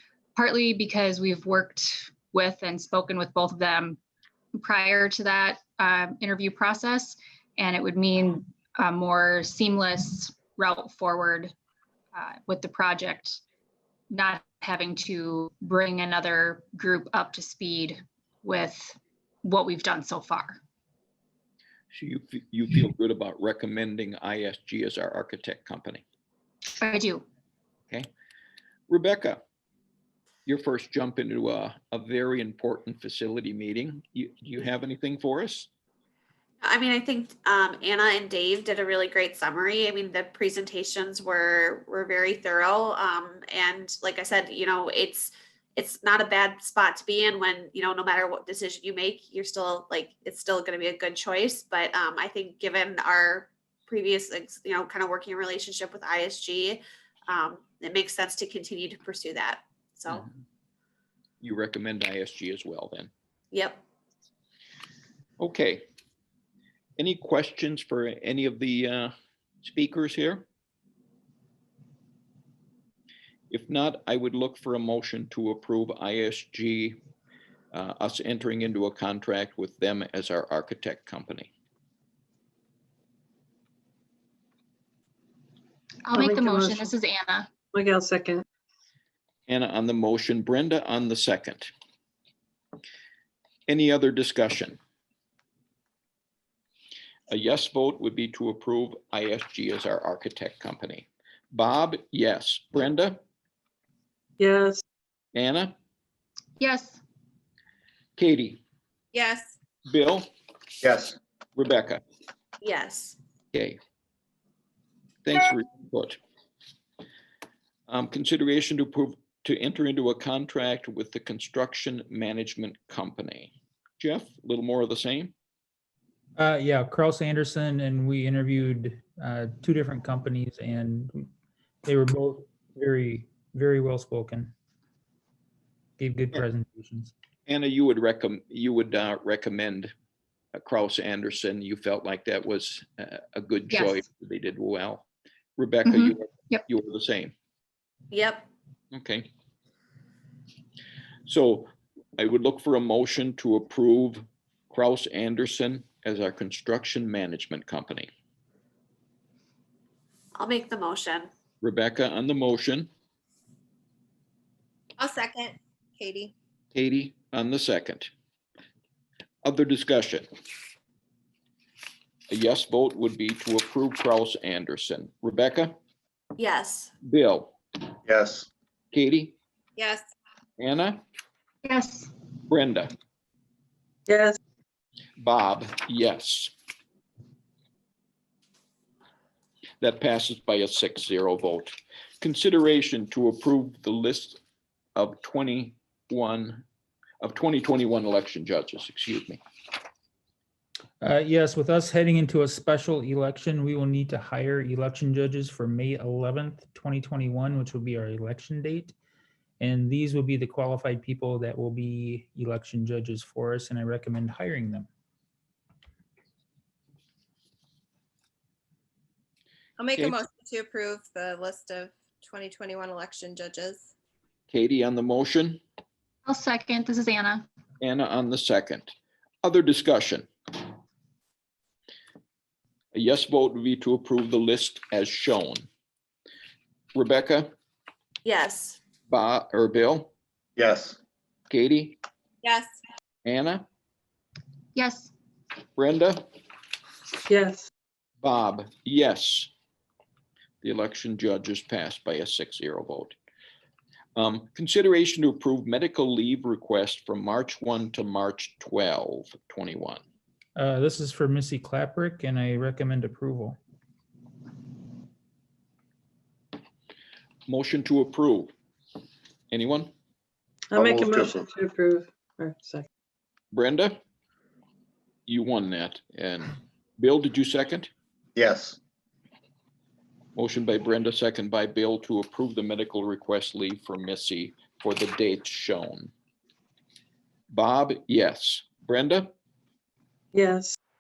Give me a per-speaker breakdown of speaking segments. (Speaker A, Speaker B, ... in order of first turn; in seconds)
Speaker A: 0.3-4.0, 4.5-11.5, 12.1-13.4, 14.1-20.6, 26.8-27.2, 86.1-87.5, 106.6-107.0, 143.7-144.0, 145.9-146.6, 181.7-182.1, 226.3-227.4, 244.8-245.1
Speaker B: 21.9-26.0, 28.9-29.4, 30.5-35.7, 61.4-63.1, 65.4-65.9, 67.0-69.1, 69.6-70.5, 73.5-77.0, 77.7-81.5, 89.5-91.7, 93.7-94.8, 97.3-103.2, 105.3-105.7, 108.2-108.6, 109.9-110.3, 111.6-112.0, 113.5-113.8, 115.2-116.2, 117.9-125.3, 137.5-139.9, 140.6-145.1, 145.6-147.3, 148.9-149.3, 151.3-158.1, 161.6-162.9, 166.7-168.1, 169.4-170.3, 172.3-175.8, 177.0-177.6, 178.9-179.4, 180.6-181.0, 182.5-182.9, 185.2-186.5, 189.8-194.4, 195.0-196.6, 197.2-199.4, 224.5-225.6, 227.8-230.3, 232.9-235.7, 236.9-237.5, 239.1-240.1, 241.5-242.0, 243.2-243.7, 245.8-246.3, 248.2-249.5, 250.6-253.2, 254.2-260.0, 267.5-268.5, 269.5-269.9, 273.5-274.0, 275.3-277.9, 280.4-286.1, 287.5-289.3
Speaker C: 36.6-60.3, 63.5-63.8, 112.6-113.2, 148.1-148.5, 160.4-161.3, 176.4-176.9, 238.2-238.8
Speaker D: 86.1-86.9, 87.7-88.5, 104.4-104.8, 184.1-184.4, 247.3-247.7, 270.7-272.9, 290.3-290.8
Speaker E: 109.1-109.5, 165.0-166.3, 179.8-180.1, 219.8-223.9, 242.4-242.7
Speaker F: 110.8-111.2, 178.1-178.5, 240.6-241.0, 270.7-271.5, 278.4-278.8
Speaker G: 126.4-131.3, 131.8-134.5, 136.0-137.1, 201.0-208.9, 209.6-214.9, 260.6-263.6